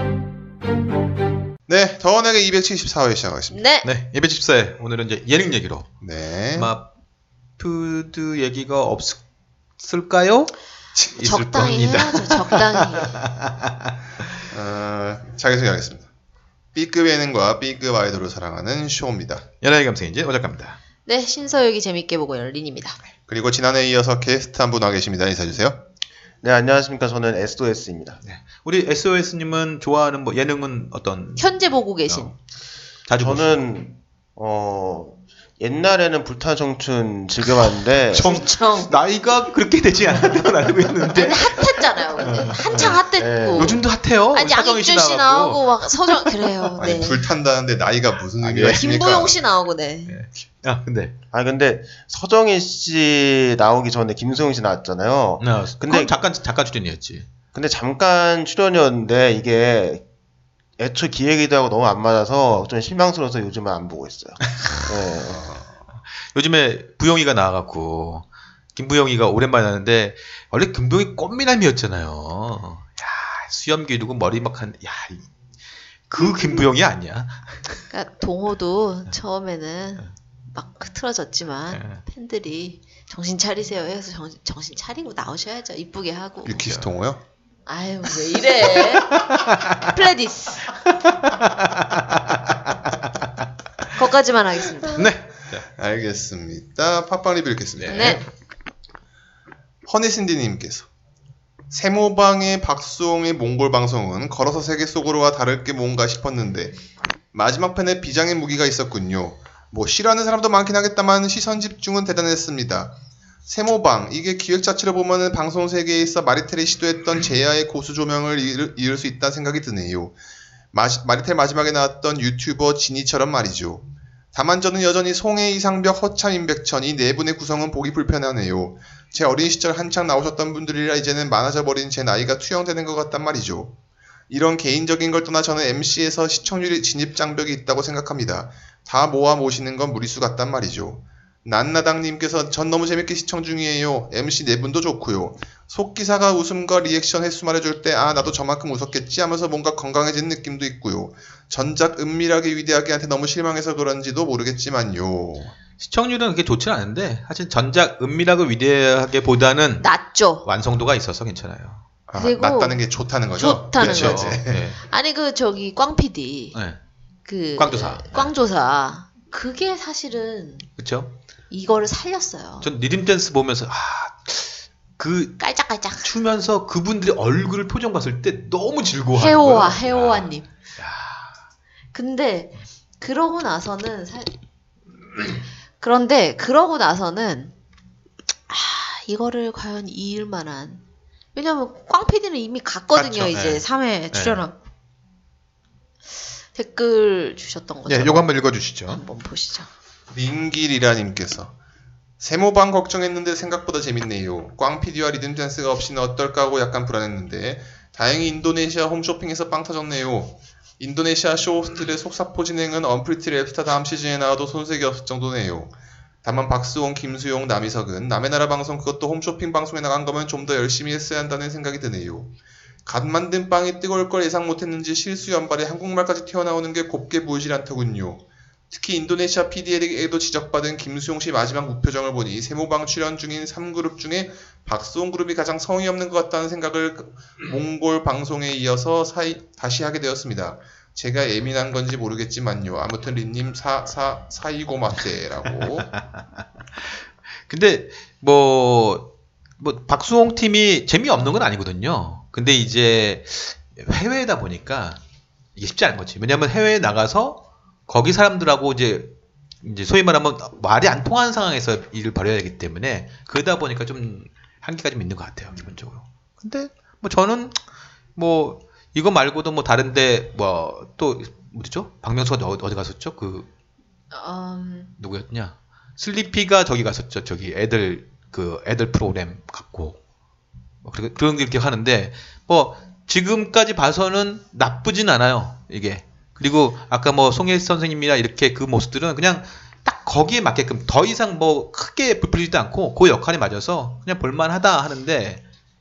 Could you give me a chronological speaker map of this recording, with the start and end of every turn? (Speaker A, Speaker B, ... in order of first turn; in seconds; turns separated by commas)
Speaker A: 1.7-3.6, Speaker B: 3.5-3.9, Speaker C: 3.8-5.9, Speaker A: 6.0-6.7, Speaker C: 6.5-6.9, Speaker C: 7.6-9.2, Speaker C: 9.8-14.3, Speaker B: 11.2-13.2, Speaker A: 14.5-16.1, Speaker A: 16.7-19.4, Speaker C: 19.6-20.8, Speaker B: 21.1-23.0, Speaker A: 23.3-25.8, Speaker D: 26.4-28.2, Speaker C: 28.2-32.3, Speaker B: 31.4-32.3, Speaker C: 33.1-33.6, Speaker D: 33.2-38.4, Speaker C: 38.1-43.0, Speaker B: 38.1-38.9, Speaker B: 41.1-47.2, Speaker D: 43.2-43.8, Speaker C: 43.5-47.1, Speaker A: 46.8-49.4, Speaker B: 48.6-50.2, Speaker C: 50.1-51.2, Speaker D: 51.3-56.1, Speaker C: 55.4-57.3, Speaker D: 57.5-60.0, Speaker D: 60.8-65.5, Speaker C: 66.3-75.2, Speaker C: 76.1-77.8, Speaker B: 76.2-76.7, Speaker B: 77.9-86.7, Speaker C: 81.7-82.0, Speaker A: 86.5-87.2, Speaker C: 86.6-86.9, Speaker B: 87.7-90.7, Speaker C: 88.8-89.9, Speaker C: 90.9-93.4, Speaker B: 93.9-95.1, Speaker C: 94.9-95.7, Speaker A: 95.7-98.2, Speaker C: 97.8-98.2, Speaker B: 97.9-98.2, Speaker A: 99.9-100.9, Speaker A: 101.7-106.8, Speaker A: 107.3-112.9, Speaker A: 113.5-120.2, Speaker A: 120.7-133.7, Speaker A: 134.3-155.6, Speaker C: 155.8-159.9, Speaker B: 159.8-160.5, Speaker C: 160.4-161.8, Speaker A: 162.1-164.6, Speaker B: 162.2-162.8, Speaker B: 163.4-166.6, Speaker C: 163.8-164.8, Speaker C: 166.5-166.8, Speaker B: 167.3-170.7, Speaker C: 167.6-168.3, Speaker C: 170.8-171.1, Speaker B: 171.5-172.7, Speaker C: 172.6-175.4, Speaker B: 175.4-176.1, Speaker C: 176.0-181.4, Speaker B: 179.1-180.5, Speaker B: 181.9-184.3, Speaker B: 185.8-187.5, Speaker B: 188.5-190.8, Speaker B: 191.3-194.6, Speaker C: 192.9-194.4, Speaker B: 196.6-198.3, Speaker C: 197.9-199.0, Speaker B: 198.9-199.7, Speaker A: 200.1-201.5, Speaker A: 202.2-222.3, Speaker A: 222.9-245.9, Speaker C: 246.8-255.0, Speaker C: 255.6-267.6, Speaker C: 268.2-273.5, Speaker B: 274.1-274.9, Speaker C: 275.0-280.0, Speaker C: 280.8-295.4